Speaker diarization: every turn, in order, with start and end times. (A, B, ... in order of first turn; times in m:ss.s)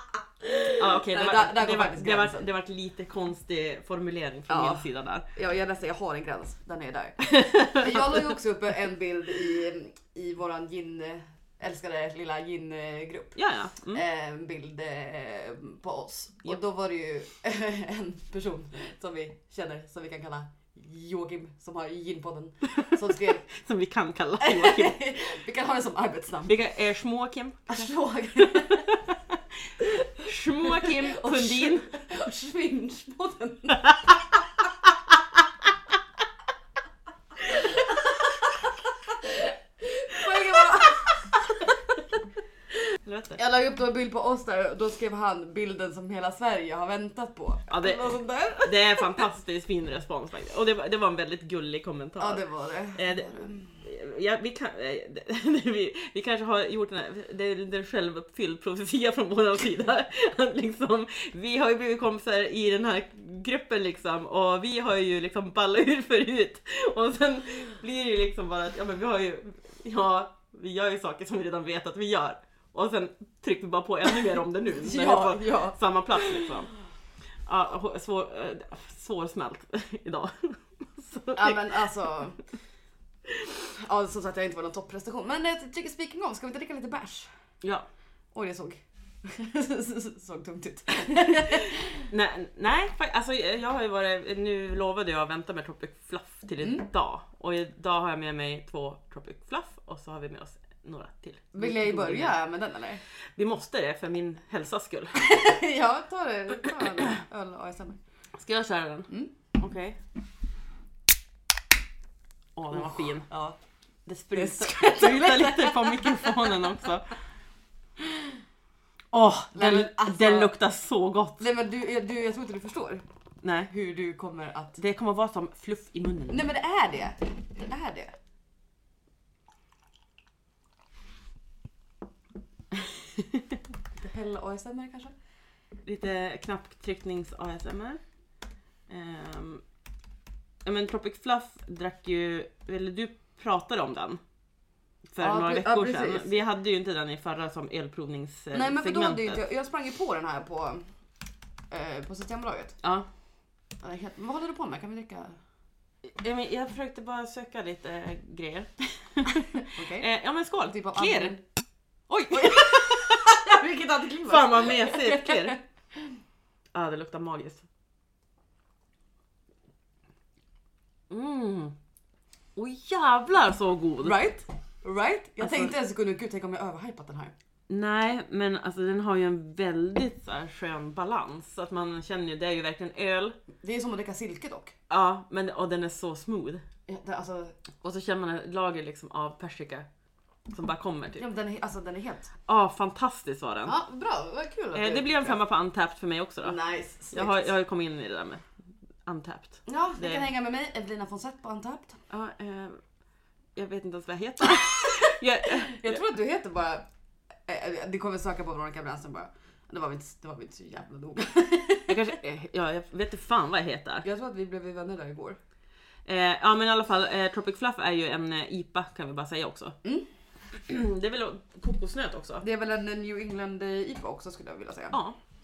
0:00.6-0:02.5 A
0:00.8-0:05.3 B
0:04.5-0:13.4 A
0:07.3-0:08.3 B
0:13.4-0:14.0 B
0:13.9-0:23.5 A
0:23.5-0:25.0 B
0:24.4-0:26.6 A
0:26.5-0:27.9 B
0:27.7-0:29.0 A
0:28.5-0:29.4 B
0:30.2-0:31.9 B
0:30.8-0:34.0 A
0:37.4-0:41.3 A
0:43.0-0:43.4 B
0:43.4-0:49.2 A
0:47.7-0:52.4 B
0:52.2-0:53.8 A
0:53.0-1:16.7 B
1:14.7-1:16.5 A
1:17.5-1:21.7 B
1:21.4-1:22.4 A
1:23.7-1:27.3 A
1:28.3-1:32.0 A
1:32.1-1:42.4 B
1:36.6-1:36.9 A
1:41.5-1:43.0 A
1:43.4-1:45.2 B
1:45.2-1:48.0 A
1:48.4-1:50.0 B
1:52.6-1:53.3 B
1:52.7-1:53.6 A
1:54.1-1:57.1 B
1:54.3-1:56.5 A
1:59.1-2:01.4 B
1:59.5-2:00.6 A
2:01.4-2:03.0 A
2:03.4-2:03.7 B
2:03.7-2:04.8 A
2:04.8-2:06.5 B
2:06.3-2:08.2 A
2:14.0-2:15.1 A
2:15.8-2:18.0 B
2:18.9-2:19.6 B
2:20.6-2:24.2 B
2:25.1-2:29.4 B
2:25.2-2:26.4 A
2:28.5-2:30.9 A
2:31.7-2:32.8 A
2:32.8-2:33.1 B
2:33.8-2:35.4 A
2:36.1-2:41.4 B
2:39.6-2:40.1 A
2:40.6-2:41.4 A
2:42.1-2:43.2 B
2:42.2-2:45.6 A
2:44.2-2:45.6 B
2:46.7-2:47.6 B
2:51.1-2:51.8 B
2:52.6-2:54.2 B
2:54.0-2:57.3 A
2:55.4-2:55.7 B
2:57.7-3:03.4 B
3:03.6-3:04.7 A
3:04.9-3:06.6 B
3:06.9-3:07.6 A
3:07.8-3:09.9 B
3:10.5-3:11.2 B
3:11.2-3:12.3 A
3:12.5-3:13.8 B
3:13.6-3:15.4 A
3:14.7-3:16.6 B
3:16.4-3:17.5 A
3:17.1-3:18.5 B
3:19.0-3:20.3 B
3:19.7-3:22.0 A
3:22.1-3:22.8 B
3:23.6-3:26.0 B
3:25.7-3:26.9 A
3:27.5-3:32.2 A
3:31.9-3:34.1 B
3:34.0-3:35.4 A
3:36.0-3:39.8 B
3:40.7-3:42.4 B
3:42.4-3:45.0 A
3:44.9-3:45.2 B